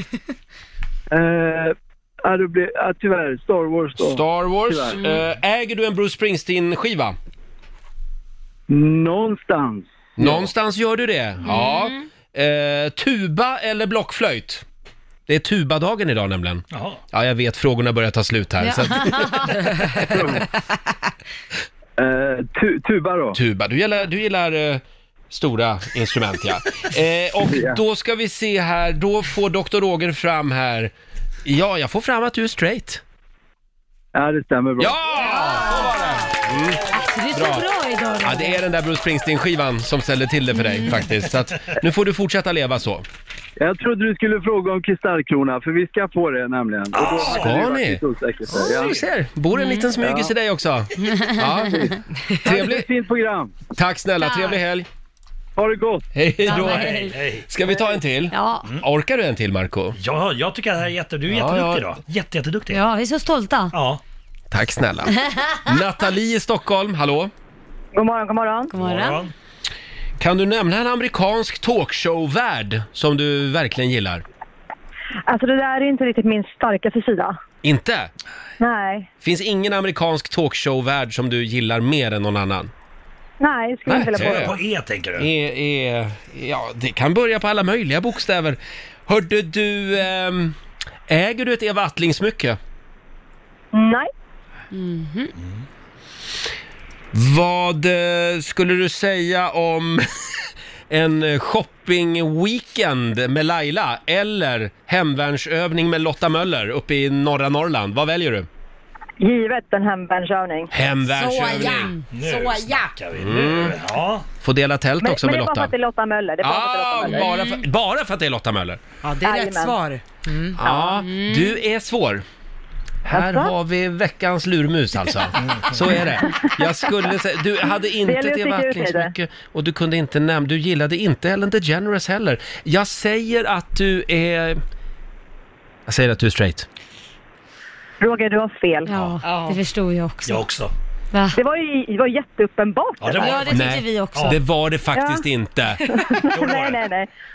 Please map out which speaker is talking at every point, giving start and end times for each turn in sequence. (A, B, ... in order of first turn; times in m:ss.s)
0:01.1-0:05.0 A
0:04.0-0:07.1 B
0:08.7-0:10.4 A
0:10.2-0:14.6 B
0:11.4-0:12.0 C
0:15.3-0:20.4 B
0:16.7-0:17.0 D
0:18.6-0:19.6 C
0:20.0-0:20.4 A
0:22.0-0:23.4 A
0:23.3-0:30.9 B
0:31.4-0:33.0 B
0:34.1-0:35.0 A
0:34.8-0:36.8 B
0:35.2-0:36.2 C
0:36.9-0:38.6 C
0:37.3-0:37.6 B
0:38.2-0:43.0 B
0:40.6-0:41.0 C
0:43.6-0:48.9 A
0:46.9-0:47.7 D
0:47.2-0:52.9 B
0:48.7-0:49.0 D
0:49.5-0:49.9 C
0:50.0-0:50.3 A
0:51.1-0:51.8 C
0:52.4-0:53.5 A
0:53.7-0:54.9 B
0:54.2-0:54.6 C
0:55.6-0:56.0 A
0:56.1-1:00.0 B
0:56.4-0:57.2 C
0:56.5-0:57.5 D
0:58.3-0:58.7 C
1:00.0-1:02.8 D
1:01.3-1:01.9 B
1:02.7-1:03.8 C
1:03.7-1:04.0 D
1:04.5-1:07.3 B
1:05.2-1:05.6 C
1:07.9-1:08.7 E
1:08.7-1:09.2 C
1:08.8-1:09.3 D
1:10.2-1:14.2 B
1:15.3-1:17.4 E
1:17.6-1:18.1 B
1:18.6-1:19.1 E
1:19.2-1:22.7 B
1:23.4-1:24.6 E
1:23.9-1:24.6 B
1:24.1-1:25.3 D
1:25.2-1:30.5 B
1:31.1-1:32.6 B
1:33.7-1:34.1 E
1:34.7-1:35.3 C
1:37.1-1:40.1 B
1:40.9-1:48.5 B
1:49.2-1:50.7 E
1:50.7-1:51.9 B
1:51.2-1:52.9 F
1:52.1-1:54.3 D
1:53.2-1:53.8 B
1:54.4-1:55.7 B
1:55.0-1:57.3 E
1:56.4-1:58.8 B
1:57.1-1:57.6 C
1:59.0-2:00.6 F
1:59.2-1:59.8 E
2:00.6-2:02.2 B
2:00.6-2:01.0 E
2:01.0-2:01.6 C
2:03.0-2:14.6 B
2:03.1-2:03.5 E
2:06.2-2:06.5 E
2:08.0-2:09.1 E
2:15.9-2:16.7 B
2:18.0-2:18.9 E
2:18.8-2:20.4 C
2:19.2-2:19.6 F
2:20.2-2:20.7 D
2:21.1-2:21.4 C
2:21.3-2:23.4 E
2:23.0-2:24.4 D
2:23.2-2:24.4 C
2:23.5-2:26.0 B
2:24.9-2:25.2 E
2:25.9-2:27.1 E
2:26.2-2:26.8 D